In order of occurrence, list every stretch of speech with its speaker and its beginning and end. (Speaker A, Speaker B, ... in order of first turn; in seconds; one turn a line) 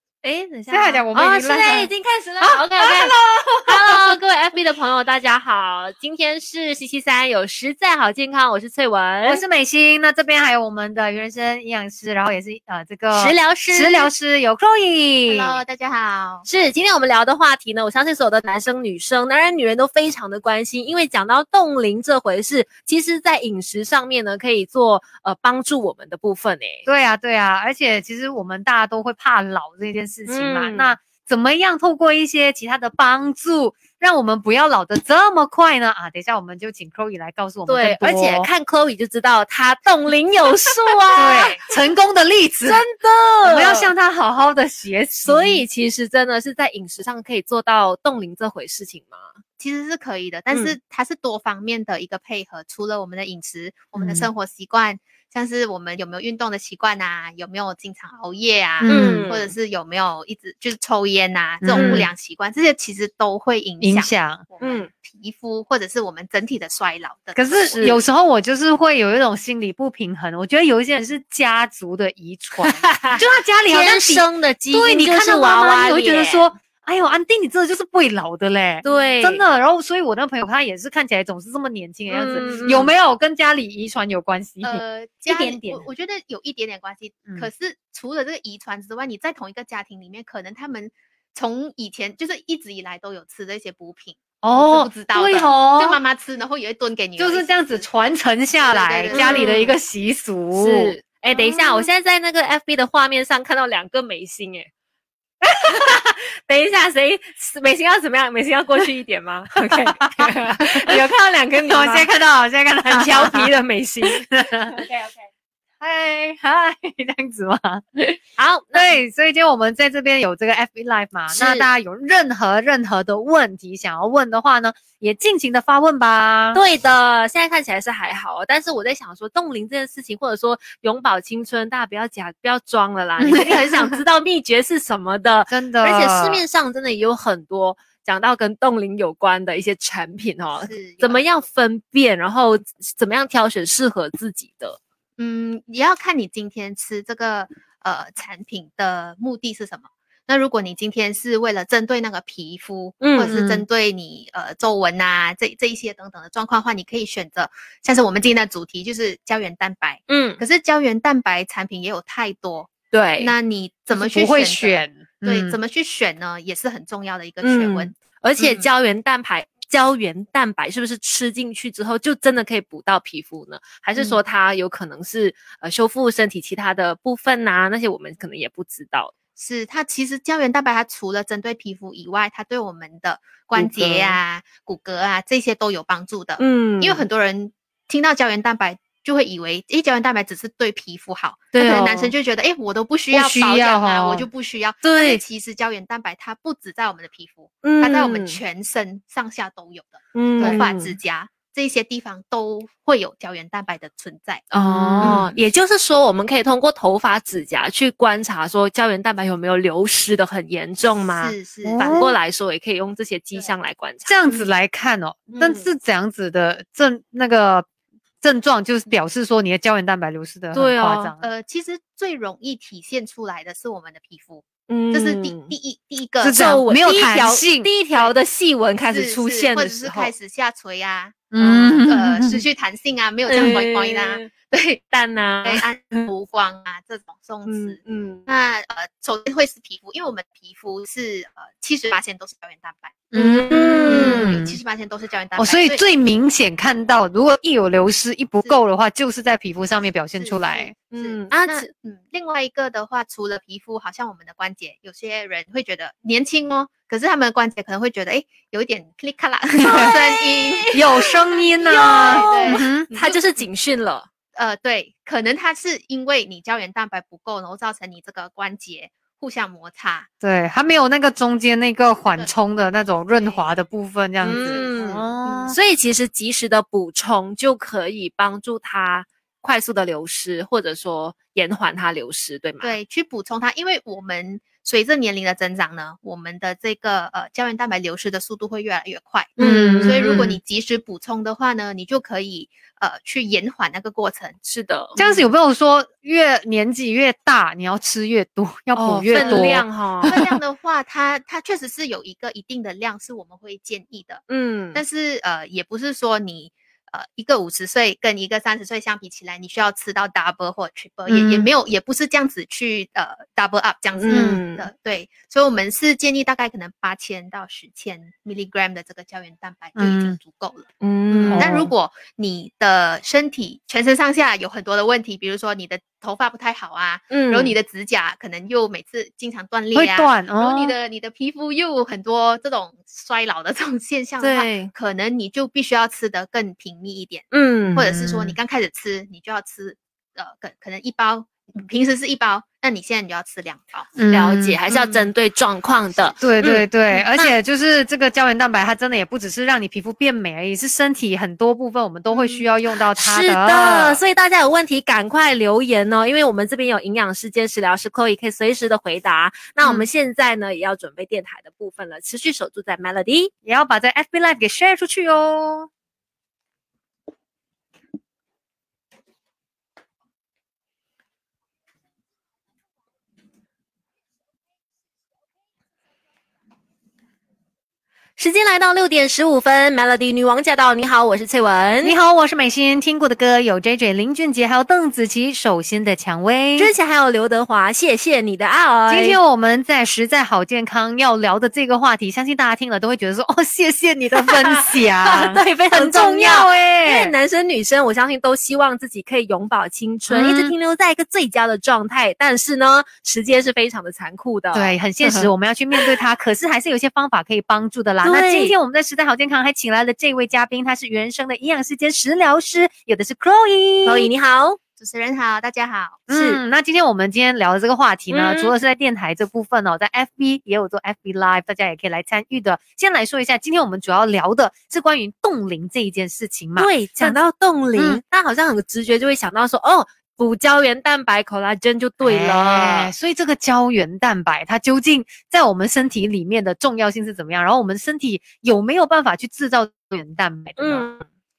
Speaker A: 0.2-9.4
Speaker B: 0.7-1.9
Speaker B: 2.4-4.2
Speaker B: 9.2-15.6
Speaker A: 13.1-14.1
Speaker C: 15.3-16.5
Speaker A: 16.4-26.9
Speaker B: 26.9-38.5
Speaker A: 30.3-30.9
Speaker A: 37.7-41.6
Speaker B: 41.1-42.8
Speaker A: 42.6-43.9
Speaker B: 43.4-45.6
Speaker A: 45.2-49.3
Speaker C: 49.6-67.8
Speaker B: 54.0-54.3
Speaker B: 58.8-59.3
Speaker A: 58.9-59.5
Speaker B: 61.6-62.1
Speaker A: 61.7-62.1
Speaker B: 63.8-64.4
Speaker A: 64.6-64.9
Speaker B: 67.3-85.8
Speaker A: 67.6-68.0
Speaker A: 72.6-76.5
Speaker A: 78.8-79.4
Speaker A: 82.1-82.9
Speaker C: 82.4-82.8
Speaker C: 84.6-97.8
Speaker B: 94.4-96.0
Speaker B: 97.2-101.0
Speaker C: 98.6-99.6
Speaker A: 99.1-99.7
Speaker A: 100.5-104.7
Speaker B: 101.5-101.8
Speaker B: 105.4-105.9
Speaker A: 105.6-112.1
Speaker B: 109.7-111.0
Speaker B: 111.7-113.5
Speaker A: 112.8-115.2
Speaker B: 114.0-114.8
Speaker B: 115.8-117.8
Speaker A: 118.0-119.0
Speaker B: 118.7-126.6
Speaker A: 121.3-121.7
Speaker A: 126.5-144.8
Speaker B: 133.2-133.9
Speaker B: 135.5-136.4
Speaker C: 140.6-141.2
Speaker C: 145.2-168.7
Speaker A: 153.0-153.4
Speaker B: 153.3-153.6
Speaker A: 160.1-160.4
Speaker A: 162.9-163.3
Speaker B: 163.9-165.6
Speaker A: 167.4-179.1
Speaker C: 179.4-204.5
Speaker A: 183.6-184.2
Speaker A: 186.4-187.0
Speaker A: 191.5-192.1
Speaker B: 193.1-194.3
Speaker A: 194.8-195.2
Speaker A: 197.6-198.4
Speaker A: 200.1-200.9
Speaker B: 200.4-200.6
Speaker A: 204.5-214.3
Speaker B: 204.5-205.2
Speaker C: 205.0-205.3
Speaker C: 211.2-211.8
Speaker B: 211.6-212.1
Speaker B: 214.1-217.7
Speaker A: 215.3-215.7
Speaker B: 218.2-221.2
Speaker A: 220.5-221.1
Speaker C: 221.2-226.6
Speaker A: 224.7-225.5
Speaker B: 226.2-227.7
Speaker A: 226.3-230.1
Speaker C: 228.9-234.8
Speaker B: 231.3-232.4
Speaker A: 233.3-234.3
Speaker A: 234.9-236.1
Speaker C: 235.4-245.8
Speaker A: 237.4-238.2
Speaker B: 243.1-244.6
Speaker A: 243.1-244.3
Speaker B: 245.4-250.7
Speaker C: 250.2-260.8
Speaker A: 250.9-251.7
Speaker A: 259.6-264.1
Speaker B: 260.7-262.9
Speaker C: 261.6-263.2
Speaker C: 264.3-270.1
Speaker B: 270.2-275.6
Speaker C: 272.0-272.3
Speaker C: 273.1-273.4
Speaker C: 274.2-275.6
Speaker A: 274.2-282.8
Speaker C: 282.6-294.4
Speaker A: 289.4-290.4
Speaker B: 289.4-290.3
Speaker A: 294.4-295.0
Speaker B: 295.0-300.4
Speaker A: 298.8-300.2
Speaker C: 299.1-299.5
Speaker C: 300.0-343.9
Speaker A: 304.3-304.8
Speaker B: 311.1-311.5
Speaker A: 313.9-314.7
Speaker B: 314.1-314.4
Speaker B: 319.8-320.2
Speaker A: 320.8-321.6
Speaker B: 321.3-321.7
Speaker A: 327.1-327.5
Speaker B: 329.7-330.8
Speaker A: 334.2-334.7
Speaker A: 337.3-337.9
Speaker B: 337.6-338.4
Speaker B: 343.9-344.6
Speaker A: 344.1-347.3
Speaker B: 346.2-354.0
Speaker A: 352.1-352.4
Speaker A: 352.9-363.3
Speaker B: 363.4-365.7
Speaker A: 378.2-381.9
Speaker B: 381.8-386.7
Speaker A: 386.6-389.2
Speaker B: 388.9-397.1
Speaker A: 394.1-405.9
Speaker B: 400.1-400.5
Speaker B: 404.5-414.1
Speaker A: 408.0-408.5
Speaker A: 413.8-414.6
Speaker C: 414.8-416.0
Speaker A: 416.1-416.4
Speaker B: 416.1-427.2
Speaker A: 418.1-418.5
Speaker A: 426.6-432.9
Speaker B: 427.8-428.0
Speaker B: 432.0-440.9
Speaker A: 440.6-441.0